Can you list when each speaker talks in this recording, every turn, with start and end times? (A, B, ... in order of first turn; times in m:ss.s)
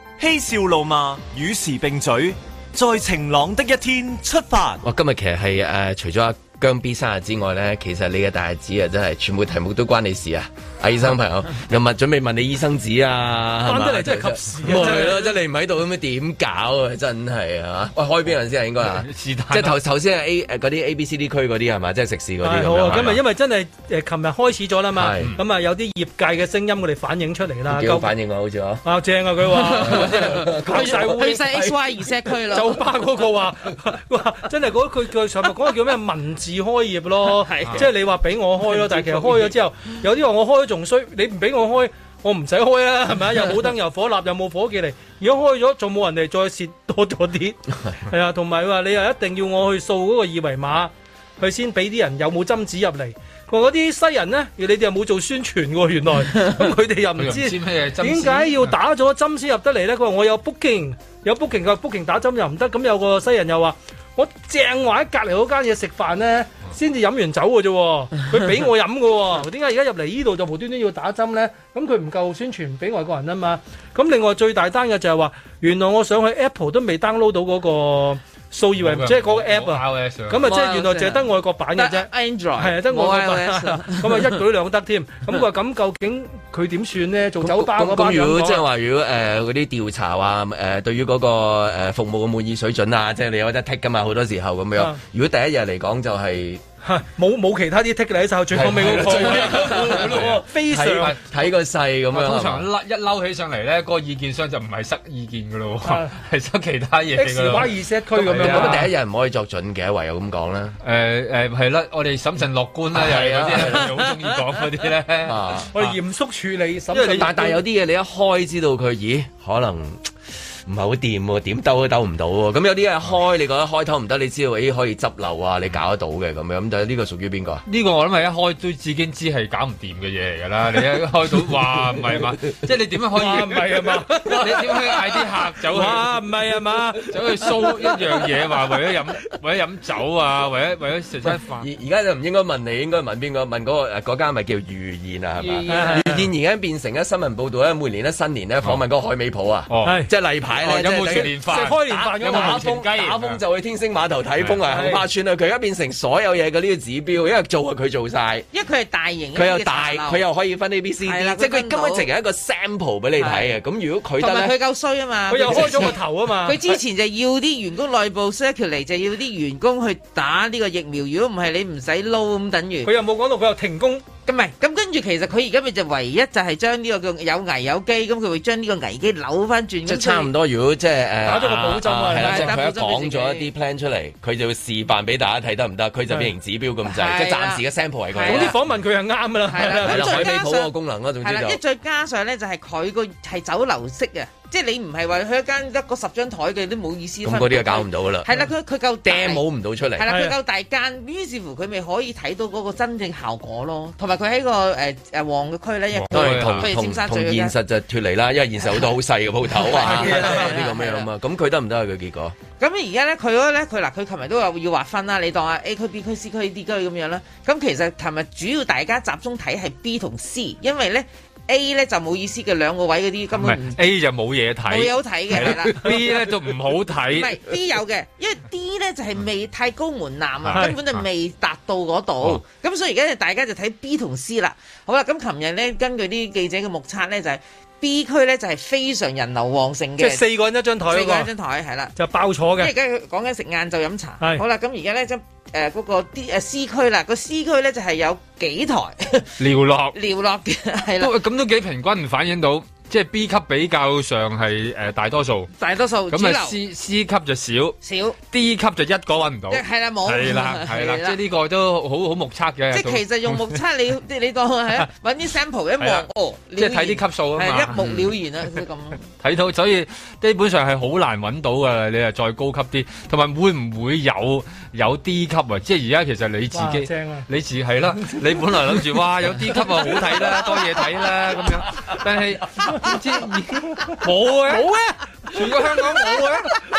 0:00.2-0:04.8 A
0:04.8-0:23.2 B
0:13.6-0:15.3 C
0:18.8-0:19.8 D
0:22.4-0:28.1 C
0:22.9-0:23.2 D
0:24.9-0:25.4 B
0:27.7-0:28.8 B
0:28.8-0:31.4 C
0:29.5-0:32.1 B
0:30.7-0:32.8 E
0:32.5-1:28.6 C
0:37.3-0:37.8 E
0:57.2-0:58.7 D
1:18.8-1:20.5 D
1:20.4-1:24.4 E
1:27.4-1:36.6 B
1:36.8-1:41.1 C
1:38.5-1:42.7 B
1:38.6-1:41.3 D
1:42.1-1:48.9 D
1:45.8-1:46.2 C
1:47.1-1:48.9 C
1:48.2-1:50.8 B
1:50.8-1:55.9 D
1:52.9-1:54.1 B
1:55.2-1:55.7 B
1:55.7-1:57.6 C
1:56.9-1:57.3 D
1:57.1-2:00.1 B
2:00.6-2:07.6 B
2:07.6-2:16.2 D
2:11.9-2:12.2 B
2:13.2-2:15.0 C
2:15.7-2:17.9 C
2:17.0-2:21.7 D
2:21.2-2:38.5 B
2:25.4-2:25.9 D
2:25.7-2:26.3 C
2:29.7-2:33.4 D
2:29.8-2:30.1 C
2:30.8-2:32.6 C
2:34.7-2:35.0 C
2:38.5-2:40.2 E
2:39.3-2:44.6 B
2:41.0-2:42.1 E
2:43.2-2:43.5 E
2:44.2-2:52.9 E
2:45.3-2:46.8 C
2:45.4-2:45.9 B
2:52.8-2:54.0 C
2:54.2-3:00.3 E
2:59.8-3:08.6 B
3:01.2-3:02.6 C
3:02.1-3:03.5 E
3:06.8-3:08.6 E
3:08.2-3:10.3 C
3:09.5-3:27.5 E
3:09.8-3:11.6 B
3:17.2-3:18.3 B
3:19.0-3:20.1 B
3:20.0-3:20.3 C
3:25.9-3:26.7 D
3:26.1-3:32.3 B
3:29.5-3:31.1 E
3:29.9-3:30.4 C
3:32.6-3:43.8 E
3:43.3-3:47.4 D
3:44.7-3:46.3 E
3:47.0-4:00.2 E
3:50.4-3:51.0 D
3:50.5-3:50.8 C
4:00.0-4:01.3 C
4:00.8-4:01.9 E
4:01.9-4:02.7 C
4:02.6-4:09.3 E
4:09.4-4:10.0 D
4:09.9-4:11.2 E
4:11.0-4:15.5 D
4:15.6-4:16.6 E
4:16.1-4:17.8 D
4:17.8-4:18.2 E
4:18.3-4:23.6 D
4:19.5-4:21.2 E
4:22.7-4:29.0 E
4:25.8-4:28.2 D
4:29.1-4:44.7 D
4:36.5-4:37.2 C
4:38.0-4:39.0 C
4:39.5-4:40.8 C
4:44.5-4:45.8 C
4:45.3-4:46.6 D